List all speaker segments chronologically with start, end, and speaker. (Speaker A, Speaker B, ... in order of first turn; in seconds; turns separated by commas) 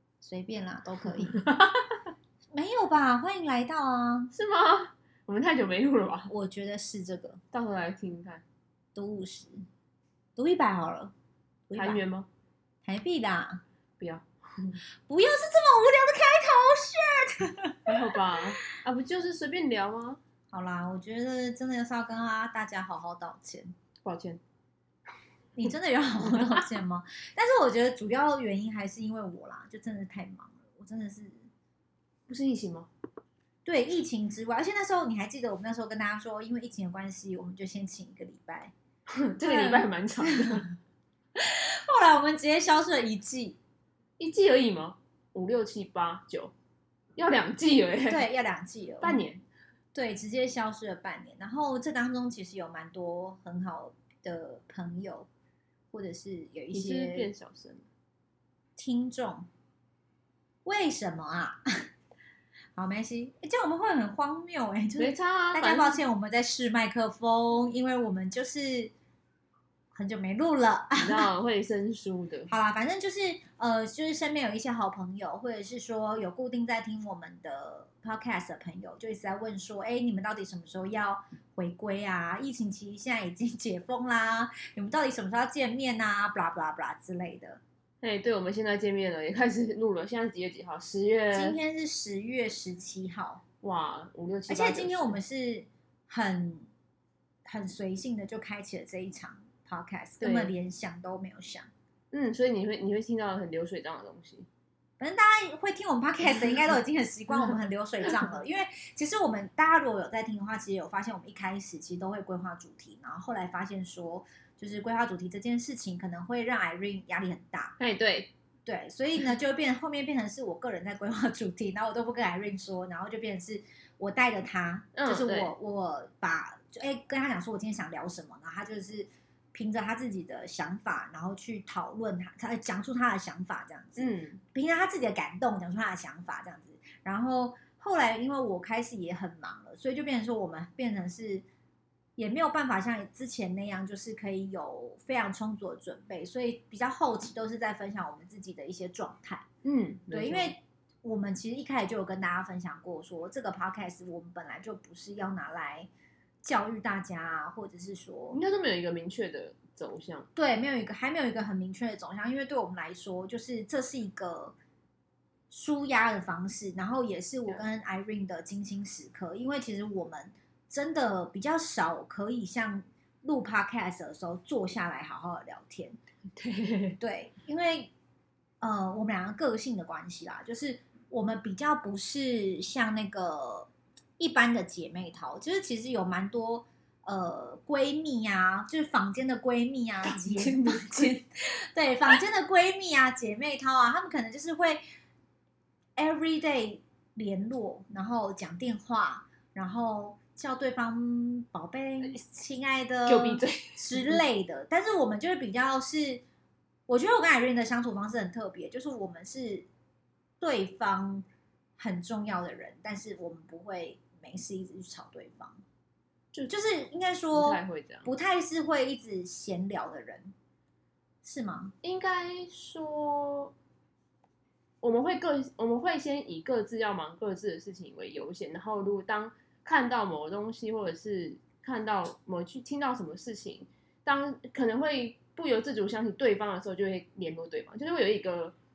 Speaker A: 0.2-1.4, Speaker B: 1.1-2.1, Speaker A: 2.5-4.3, Speaker B: 4.3-6.3, Speaker A: 6.3-7.4, Speaker B: 7.5-8.4, Speaker A: 8.9-9.6, Speaker A: 10.3-11.1, Speaker A: 11.7-12.0, Speaker B: 11.8-12.3, Speaker A: 12.8-13.6, Speaker B: 14.0-14.8, Speaker A: 15.1-17.9, Speaker B: 17.9-20.2, Speaker A: 20.5-23.7, Speaker B: 24.0-24.4, Speaker A: 25.6-31.4, Speaker B: 26.2-26.6, Speaker B: 32.3-32.9, Speaker A: 33.6-38.7, Speaker B: 39.1-40.7, Speaker A: 39.4-40.6, Speaker A: 41.4-43.6, Speaker B: 44.2-46.5, Speaker B: 47.1-48.3, Speaker A: 48.1-49.2, Speaker B: 49.0-49.4, Speaker A: 49.9-55.3, Speaker A: 55.9-57.3, Speaker B: 56.7-57.9, Speaker A: 58.8-59.5, Speaker A: 60.6-61.7, Speaker A: 62.8-68.9, Speaker B: 65.0-66.0, Speaker A: 69.9-71.3, Speaker B: 71.0-72.5, Speaker A: 72.5-87.6, Speaker B: 88.0-91.6, Speaker A: 91.3-93.4, Speaker B: 93.6-95.2, Speaker A: 94.5-96.7, Speaker A: 97.4-101.7, Speaker B: 100.2-100.5, Speaker B: 102.1-104.5, Speaker A: 105.0-117.7, Speaker B: 106.2-106.6, Speaker B: 117.8-118.3, Speaker A: 118.7-141.4, Speaker B: 124.9-125.5, Speaker B: 133.9-134.4, Speaker A: 142.2-149.4, Speaker B: 149.6-150.5, Speaker A: 150.1-155.9, Speaker A: 156.4-158.4, Speaker B: 158.3-160.3, Speaker A: 160.3-164.5, Speaker A: 165.5-176.0, Speaker B: 176.3-177.0, Speaker A: 177.0-177.9, Speaker A: 178.6-194.8, Speaker B: 190.0-191.1, Speaker A: 196.0-206.2, Speaker B: 203.1-204.2, Speaker A: 206.9-209.7, Speaker A: 210.4-211.2, Speaker A: 211.8-215.6, Speaker A: 216.5-220.3, Speaker B: 217.3-218.1, Speaker A: 221.2-221.7, Speaker B: 221.8-223.5, Speaker B: 224.8-238.5